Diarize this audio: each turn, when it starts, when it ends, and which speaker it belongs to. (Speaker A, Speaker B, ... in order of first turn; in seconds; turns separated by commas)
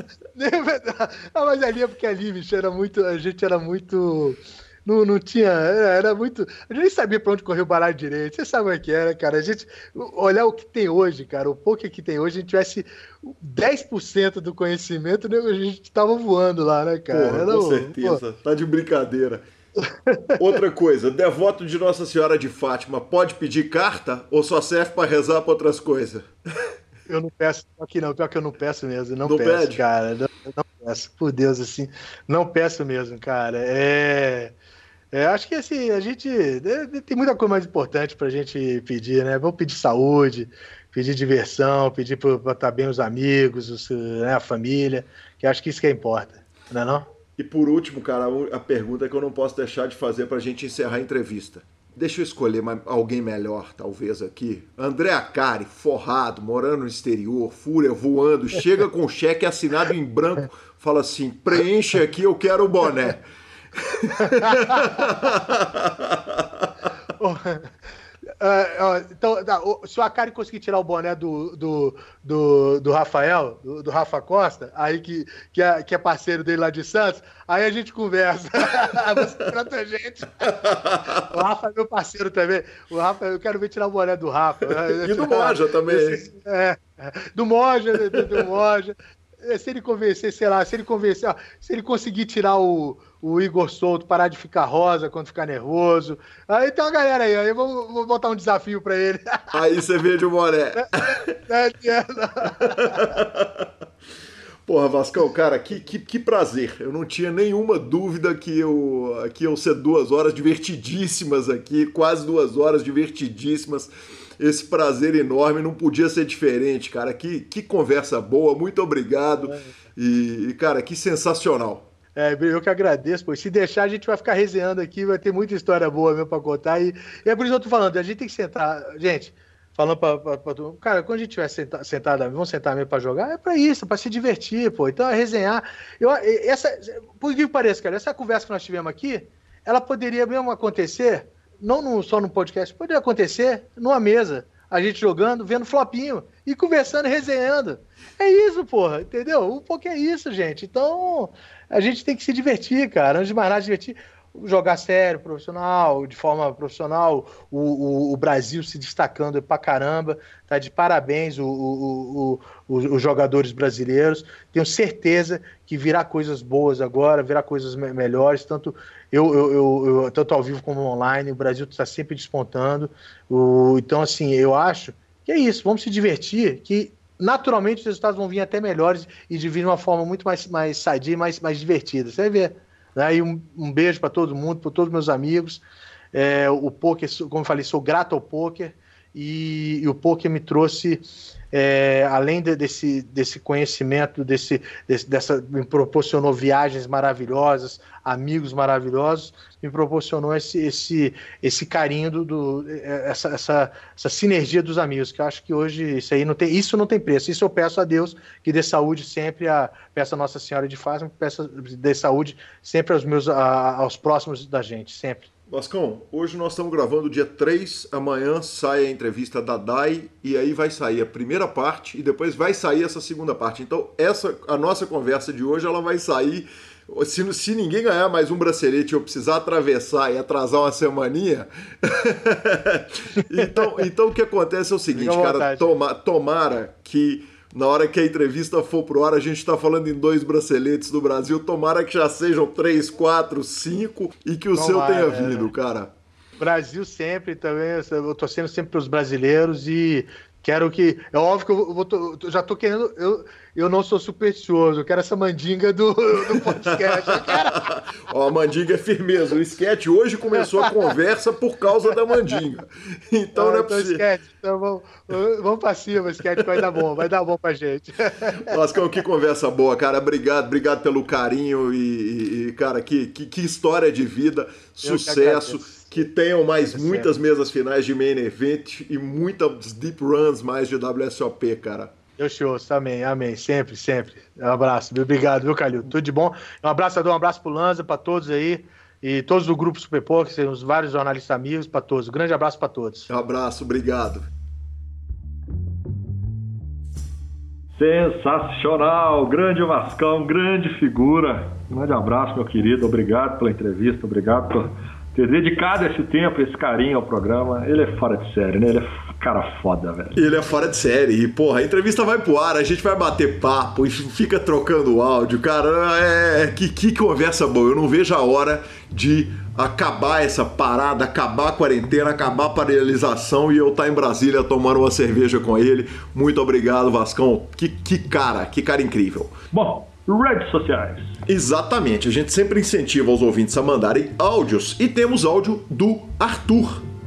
Speaker A: 0.3-18.2, Speaker B: 17.1-19.4, Speaker A: 19.8-20.4, Speaker B: 20.4-26.3, Speaker A: 27.1-34.5, Speaker B: 29.2-29.8, Speaker A: 35.1-47.0, Speaker B: 47.4-63.2, Speaker B: 63.8-66.7, Speaker A: 64.2-65.1, Speaker A: 67.2-67.7, Speaker A: 68.3-80.5, Speaker B: 80.5-81.2, Speaker A: 81.2-99.6, Speaker B: 84.7-86.3, Speaker B: 99.5-101.3, Speaker A: 100.8-103.1, Speaker B: 102.6-103.7, Speaker B: 104.7-121.9, Speaker A: 119.4-119.7, Speaker A: 122.1-215.3, Speaker B: 215.5-245.9, Speaker A: 233.4-233.7, Speaker A: 234.9-235.7, Speaker A: 244.5-245.5, Speaker A: 246.4-257.7, Speaker B: 256.4-264.1, Speaker A: 263.3-268.6, Speaker B: 266.4-266.8, Speaker B: 268.3-281.9, Speaker A: 274.8-276.0, Speaker A: 276.7-277.1, Speaker A: 282.2-293.1, Speaker B: 293.1-294.3, Speaker C: 297.8-310.2, Speaker B: 310.1-329.4, Speaker C: 329.5-331.2, Speaker B: 331.3-336.9